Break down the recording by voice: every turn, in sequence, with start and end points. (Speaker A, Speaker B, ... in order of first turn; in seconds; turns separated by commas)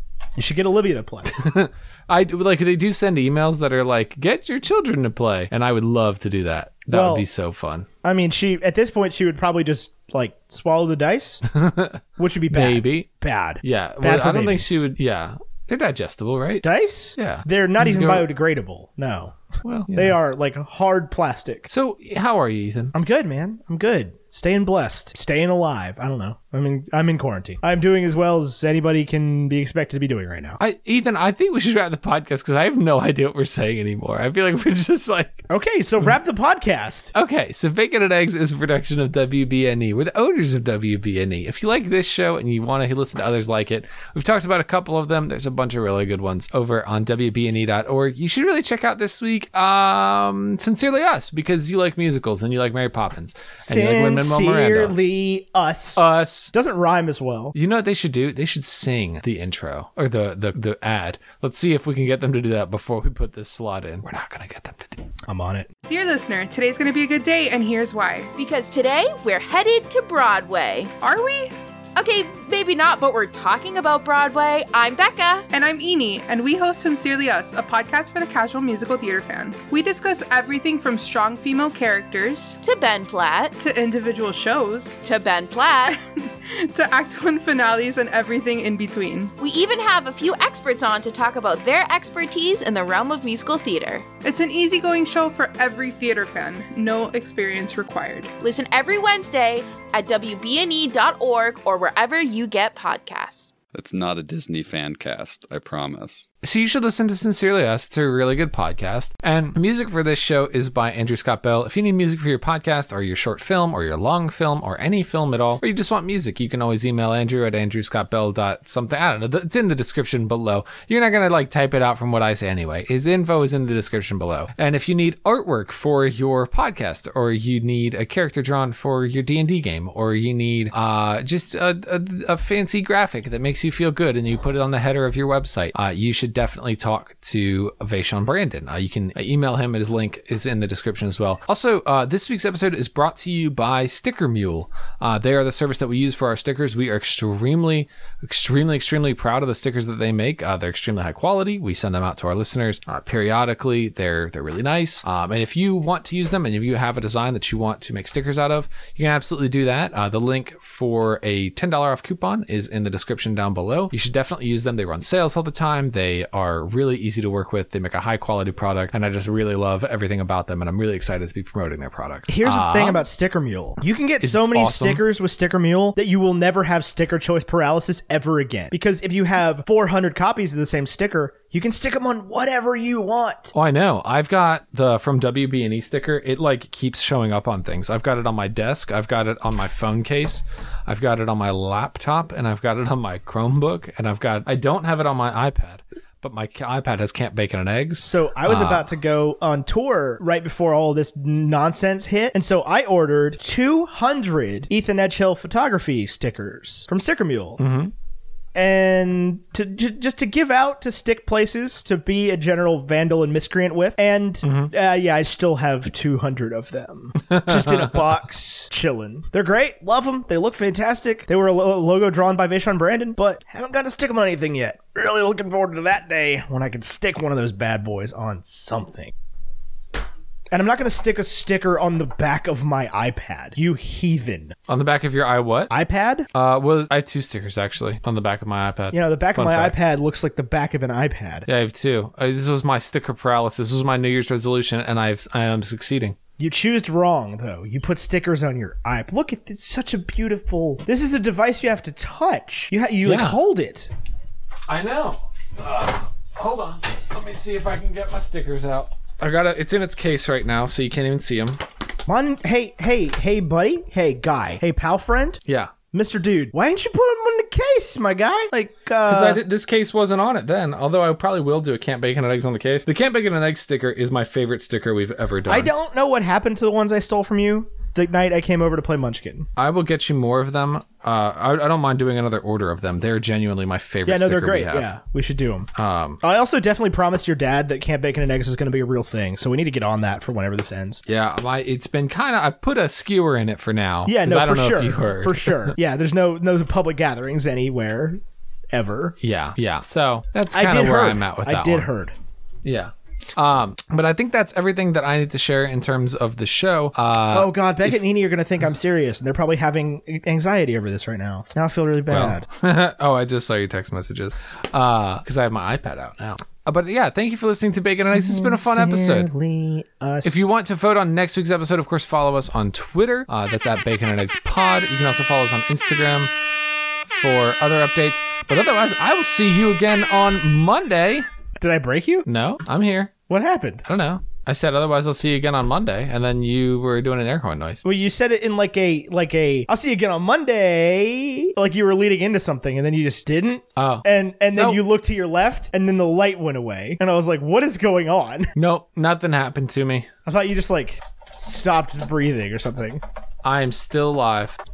Speaker A: 0.3-1.3, Speaker B: 1.3-7.9, Speaker A: 6.9-7.2, Speaker A: 8.0-11.4, Speaker B: 11.5-13.1, Speaker A: 12.2-14.7, Speaker B: 13.6-16.6, Speaker A: 16.6-19.4, Speaker B: 17.1-18.3, Speaker B: 19.6-20.2, Speaker A: 19.9-21.7, Speaker B: 21.7-22.9, Speaker A: 22.9-30.6, Speaker B: 30.6-35.5, Speaker A: 35.5-37.1, Speaker B: 37.1-55.0, Speaker A: 53.6-57.5, Speaker B: 55.9-56.5, Speaker B: 57.5-65.0, Speaker A: 65.3-65.7, Speaker C: 65.9-68.3, Speaker D: 68.3-71.0, Speaker C: 71.0-71.5, Speaker D: 72.0-75.5, Speaker C: 75.5-82.6, Speaker D: 82.6-83.5, Speaker C: 83.6-85.0, Speaker D: 85.0-86.0, Speaker C: 85.9-89.3, Speaker D: 89.4-94.0, Speaker C: 94.2-98.3, Speaker D: 98.4-103.5, Speaker E: 103.7-106.3, Speaker B: 106.4-173.1, Speaker A: 172.3-183.5, Speaker B: 174.2-175.0, Speaker B: 183.5-198.9, Speaker A: 198.0-207.6, Speaker B: 207.6-207.9, Speaker A: 208.5-229.1, Speaker B: 214.4-214.7, Speaker B: 217.3-218.0, Speaker A: 230.5-234.6, Speaker B: 234.7-235.7, Speaker A: 235.7-236.3, Speaker B: 236.3-239.8, Speaker A: 238.9-241.5, Speaker B: 241.5-246.2, Speaker A: 246.4-253.9, Speaker B: 253.0-253.4, Speaker B: 254.7-261.6, Speaker A: 262.1-269.4, Speaker B: 265.5-265.7, Speaker B: 269.1-275.7, Speaker A: 275.5-279.5, Speaker B: 279.6-284.9, Speaker A: 284.1-285.7, Speaker B: 285.8-286.2, Speaker A: 286.2-291.0, Speaker B: 291.1-295.7, Speaker A: 294.1-299.1, Speaker B: 299.2-301.9, Speaker A: 300.5-302.1, Speaker B: 302.6-308.0, Speaker A: 307.3-312.4, Speaker B: 312.1-319.3, Speaker A: 317.9-320.4, Speaker B: 320.2-326.3, Speaker B: 327.1-331.2, Speaker A: 331.6-332.3, Speaker B: 332.2-333.1, Speaker A: 333.3-333.8, Speaker B: 333.8-337.8, Speaker A: 337.8-348.5, Speaker B: 343.8-344.8, Speaker B: 348.6-350.1, Speaker A: 350.2-353.0, Speaker B: 353.4-354.6